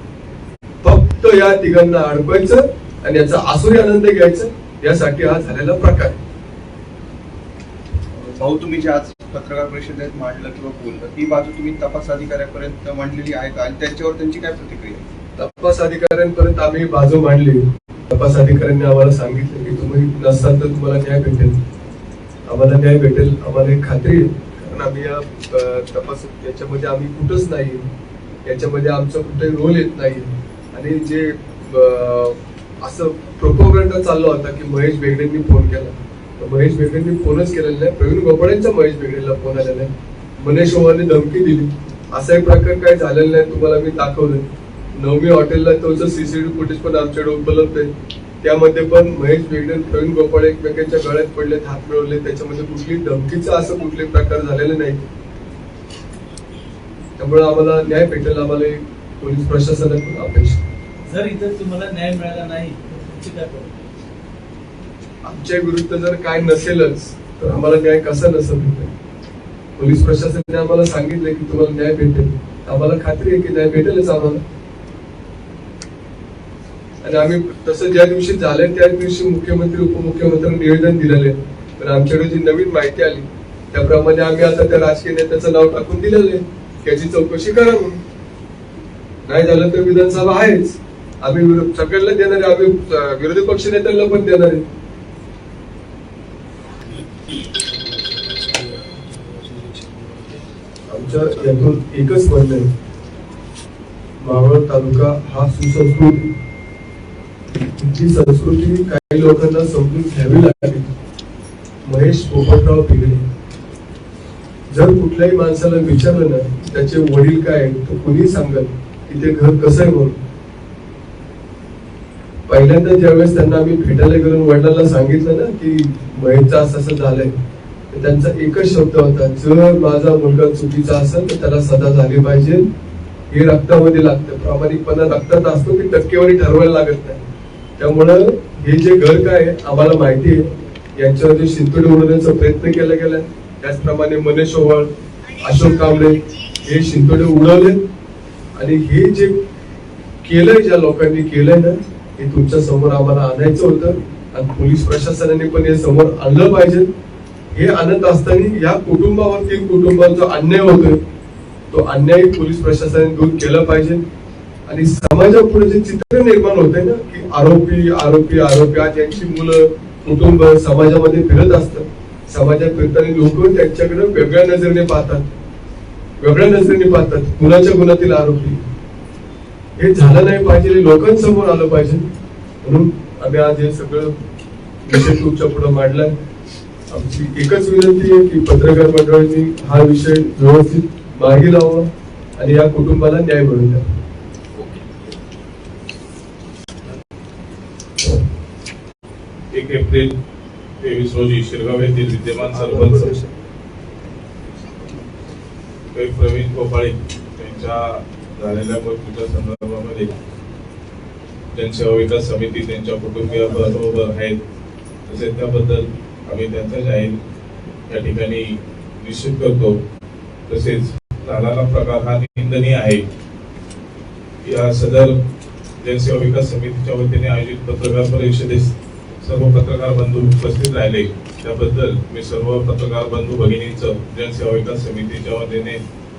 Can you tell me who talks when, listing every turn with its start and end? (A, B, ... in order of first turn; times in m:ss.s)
0:00.8-0:06.2 A
0:08.2-0:15.0 B
0:15.4-0:21.6 A
0:22.4-0:27.8 A
0:28.4-0:44.4 A
0:45.0-0:47.9 A
0:48.4-0:55.0 A
0:57.2-1:00.7 A
1:01.1-1:03.8 C
1:05.2-1:08.9 A
1:09.8-1:14.4 A
1:17.0-1:28.0 A
1:29.2-1:34.6 A
1:37.6-1:40.3 C
1:40.9-1:42.7 A
1:44.2-1:46.3 A
1:47.8-1:50.9 A
1:51.8-1:53.2 A
1:54.7-2:00.2 A
2:02.5-2:07.3 A
2:07.9-2:12.7 A
2:13.3-2:17.2 A
2:17.8-2:20.4 A
2:21.0-2:24.9 A
2:25.4-2:27.8 A
2:28.6-2:29.4 A
2:30.2-2:36.9 A
2:37.5-2:41.0 A
2:41.7-2:44.0 A
2:44.7-2:55.2 A
2:56.2-2:58.6 A
2:59.8-3:02.0 A
3:02.6-3:04.2 A
3:04.8-3:06.1 A
3:06.9-3:13.9 A
3:19.5-3:20.1 D
3:20.8-3:23.1 D
3:22.4-3:23.3 A
3:25.9-3:30.1 D
3:31.5-3:34.4 D
3:35.1-3:37.2 D
3:37.9-3:39.8 D
3:40.5-3:43.0 D
3:44.4-3:45.1 D
3:45.8-3:55.8 D